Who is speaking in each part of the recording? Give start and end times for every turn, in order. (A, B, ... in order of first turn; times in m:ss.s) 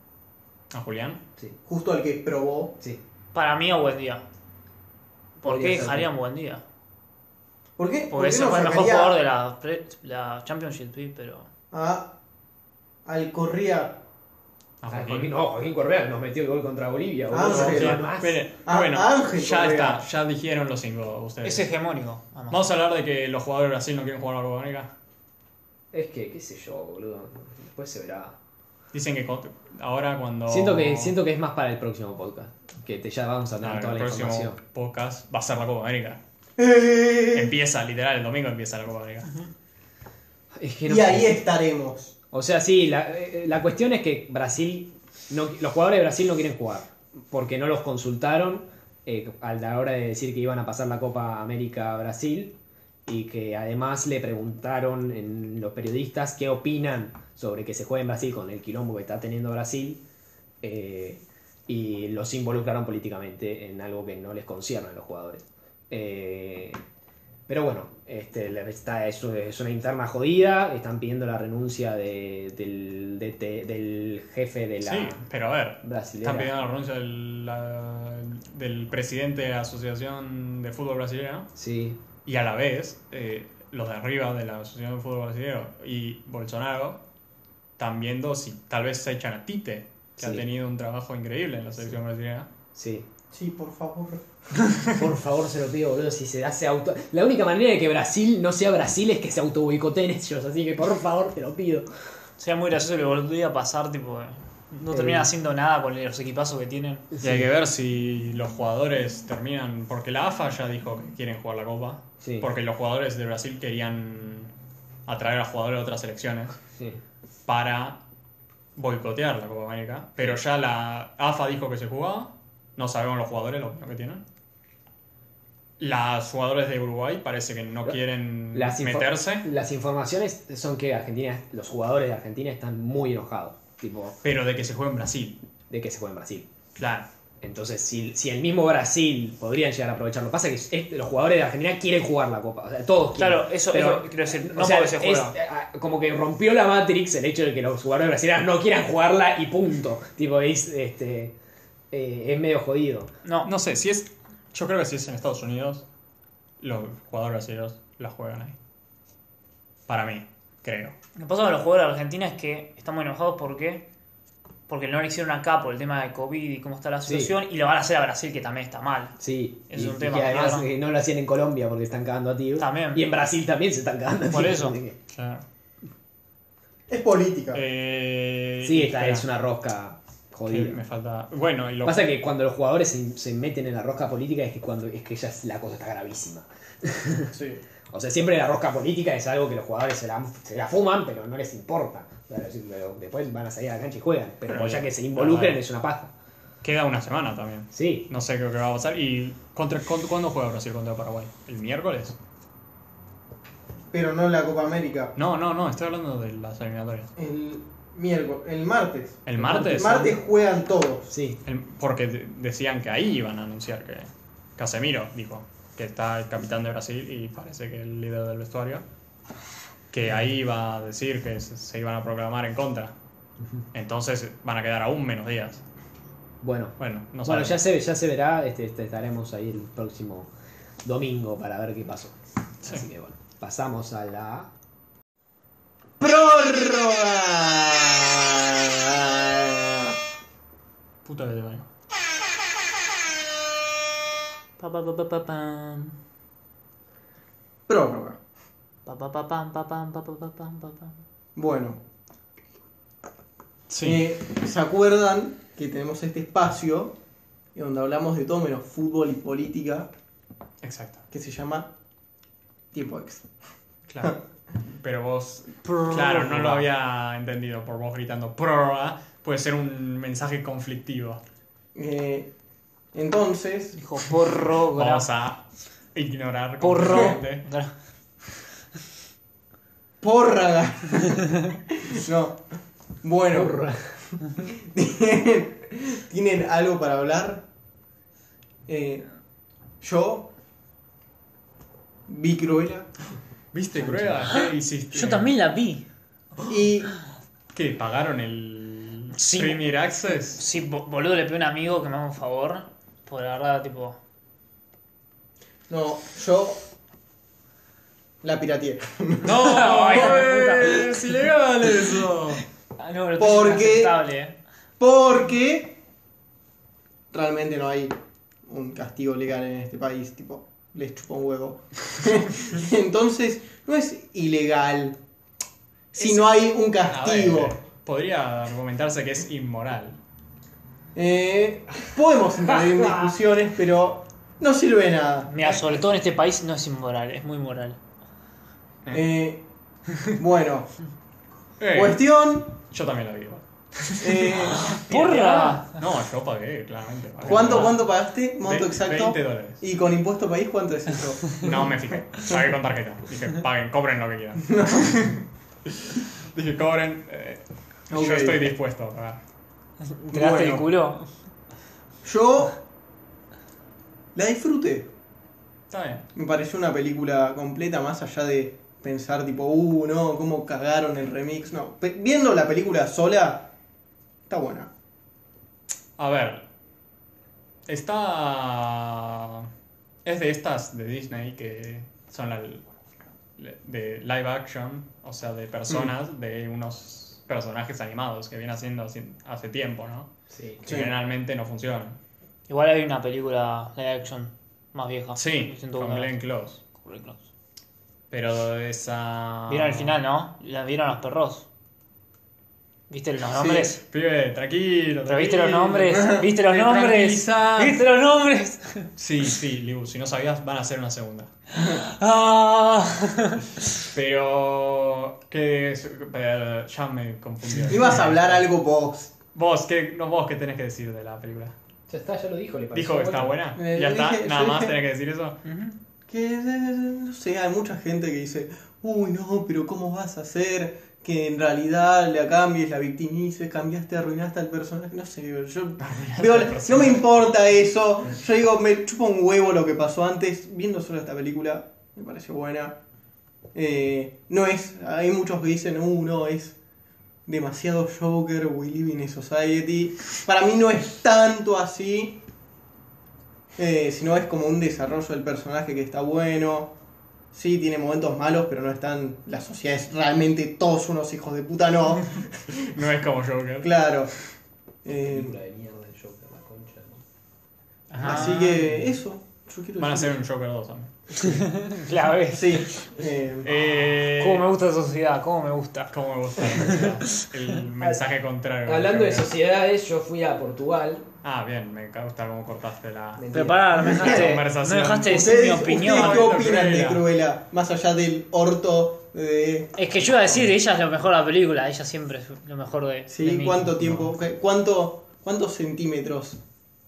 0:00.7-0:01.2 A
0:01.6-0:02.8 B
0:03.3-0:04.2 C
0:05.4-0:06.6 C
0:05.4-0:06.1 D
0:07.8-0:09.2 B
0:08.1-0:11.5 C
0:11.7-0:12.1 B
0:13.0-0:14.0 B
0:14.8-0:15.3 A
0:14.9-0:18.4 D
0:17.3-0:18.0 B
0:17.4-0:21.7 A
0:18.6-0:20.0 B
0:21.4-0:22.6 C
0:22.5-0:24.9 A
0:25.9-0:28.4 D
0:28.9-0:31.1 A
0:30.5-0:34.6 D
0:33.6-0:36.2 A
0:36.6-0:37.5 B
0:37.3-0:39.3 A
0:40.5-0:41.3 D
0:40.8-0:42.1 B
0:42.3-1:00.0 D
1:00.6-1:06.8 D
1:07.5-1:15.2 D
1:14.8-1:21.5 A
1:15.8-1:16.5 D
1:21.6-1:22.0 D
1:22.2-1:27.0 A
1:27.8-1:32.5 A
1:30.2-1:30.4 D
1:32.7-1:33.0 D
1:33.3-1:34.2 B
1:34.9-1:41.9 D
1:42.4-1:47.1 C
1:44.9-1:45.3 D
1:47.1-1:47.4 D
1:47.2-1:54.5 A
1:52.2-1:52.5 D
1:55.0-1:56.6 A
1:57.4-1:58.0 A
1:58.7-2:04.2 A
2:05.8-2:09.5 A
2:08.5-2:14.2 D
2:14.2-2:15.4 A
2:15.7-2:16.5 D
2:16.7-2:17.1 A
2:17.4-2:31.3 D
2:23.2-2:25.4 C
2:31.9-2:33.1 D
2:33.2-2:33.5 C
2:33.4-2:35.8 A
2:36.6-2:38.6 A
2:39.9-2:40.9 A
2:41.2-2:43.8 C
2:44.7-2:49.1 C
2:47.0-2:47.3 D
2:49.2-2:55.0 D
2:49.7-2:50.7 C
2:52.6-2:53.0 C
2:54.3-2:54.8 C
2:55.1-2:55.4 A
2:56.9-2:57.6 B
2:57.5-2:59.2 A
2:58.6-3:00.8 D
3:00.5-3:02.1 A
3:01.8-3:07.3 D
3:07.3-3:07.6 B
3:07.9-3:16.1 D
3:14.5-3:15.6 A
3:16.6-3:22.2 A
3:17.7-3:18.1 D
3:23.9-3:25.1 B
3:25.2-3:27.1 A
3:27.2-3:31.1 B
3:29.2-3:30.2 A
3:29.4-3:29.7 D
3:31.1-3:31.4 D
3:31.4-3:38.8 A
3:39.9-3:42.9 A
3:43.7-3:45.6 A
3:46.4-3:50.3 D
3:46.8-3:47.6 A
3:50.8-3:54.5 D
3:56.0-3:59.9 B
4:01.0-4:01.6 A
4:04.6-4:06.0 C
4:07.7-4:08.2 B
4:08.8-4:10.9 C
4:11.4-4:11.8 B
4:13.7-4:14.1 A
4:13.8-4:16.9 B
4:17.5-4:19.9 B
4:20.6-4:21.0 A
4:21.1-4:21.7 B
4:22.7-4:23.3 B
4:23.9-4:31.2 A
4:25.6-4:26.6 C
4:31.7-4:32.3 B
4:32.9-4:33.8 B
4:33.8-4:35.1 C
4:34.7-4:37.5 A
4:36.6-4:37.7 C
4:40.0-4:42.4 B
4:43.0-4:43.7 B
4:43.3-4:43.9 D
4:44.3-4:47.4 B
4:48.7-4:49.1 B
4:49.8-4:50.3 B
4:52.1-4:52.9 B
4:53.5-4:55.3 A
4:53.8-4:54.3 D
4:54.3-4:55.8 C
4:56.4-4:56.9 B
4:57.5-5:00.4 A
4:59.2-4:59.6 C
5:00.3-5:04.0 C
5:05.7-5:06.6 B
5:08.2-5:10.2 B
5:09.2-5:12.4 A
5:09.3-5:11.0 C
5:12.8-5:14.3 C
5:13.2-5:14.0 B
5:14.8-5:15.8 B
5:17.1-5:17.9 B
5:18.5-5:25.0 B
5:25.9-5:27.6 B
5:26.9-5:30.0 A
5:30.9-5:35.6 B
5:35.3-5:37.8 C
5:38.9-5:39.4 B
5:40.0-5:40.7 B
5:41.6-5:42.0 A
5:41.7-5:42.5 B
5:42.5-5:44.8 A
5:44.0-5:45.6 B
5:44.6-5:45.8 C
5:45.4-5:47.8 A
5:47.2-5:51.8 B
5:48.4-5:49.6 A
5:51.4-5:55.0 A
5:54.4-5:55.2 B
5:55.6-5:59.2 A
5:57.9-5:58.4 B
5:59.8-6:01.1 C
6:00.1-6:00.7 B
6:02.0-6:02.6 B
6:04.1-6:04.9 B
6:05.7-6:06.0 A
6:06.1-6:13.5 B
6:14.3-6:14.7 B
6:16.0-6:16.4 A
6:17.6-6:19.5 A
6:20.0-6:22.7 A
6:23.4-6:30.1 A
6:30.3-6:30.6 D
6:30.6-6:32.0 A
6:30.6-6:30.9 B
6:32.5-6:36.1 C
6:35.2-6:36.6 A
6:36.7-6:37.2 C
6:38.1-6:40.0 A
6:39.5-6:41.4 C
6:42.9-6:43.8 C
6:43.3-6:43.7 B
6:43.8-6:47.8 A
6:45.0-6:48.9 C
6:45.8-6:46.2 B
6:49.0-6:51.3 A
6:51.5-6:53.8 C
6:53.9-6:58.4 A
6:57.7-6:59.1 B
6:59.3-7:01.5 A
7:01.9-7:03.4 D
7:02.7-7:05.4 A
7:03.6-7:04.8 B
7:06.1-7:22.8 B
7:15.8-7:17.3 A
7:23.5-7:26.5 B
7:27.2-7:32.2 B
7:33.6-7:36.7 B
7:37.3-7:42.7 B
7:42.5-7:43.7 A
7:43.6-7:44.1 B
7:44.8-7:45.3 B
7:45.0-7:47.0 D
7:47.9-7:48.6 C
7:48.0-7:48.4 A
7:48.0-7:50.2 B
7:49.8-7:50.9 A
7:51.2-7:52.7 C
7:52.3-7:53.5 B
7:53.4-7:54.4 A
7:54.1-7:57.3 C
7:55.9-7:59.3 A
7:58.6-8:01.1 D
8:01.2-8:03.2 A
8:03.2-8:04.0 D
8:03.3-8:06.4 C
8:03.8-8:07.0 A
8:03.8-8:04.3 B
8:05.0-8:09.7 B
8:09.8-8:14.1 C
8:10.2-8:10.5 A
8:13.1-8:16.4 B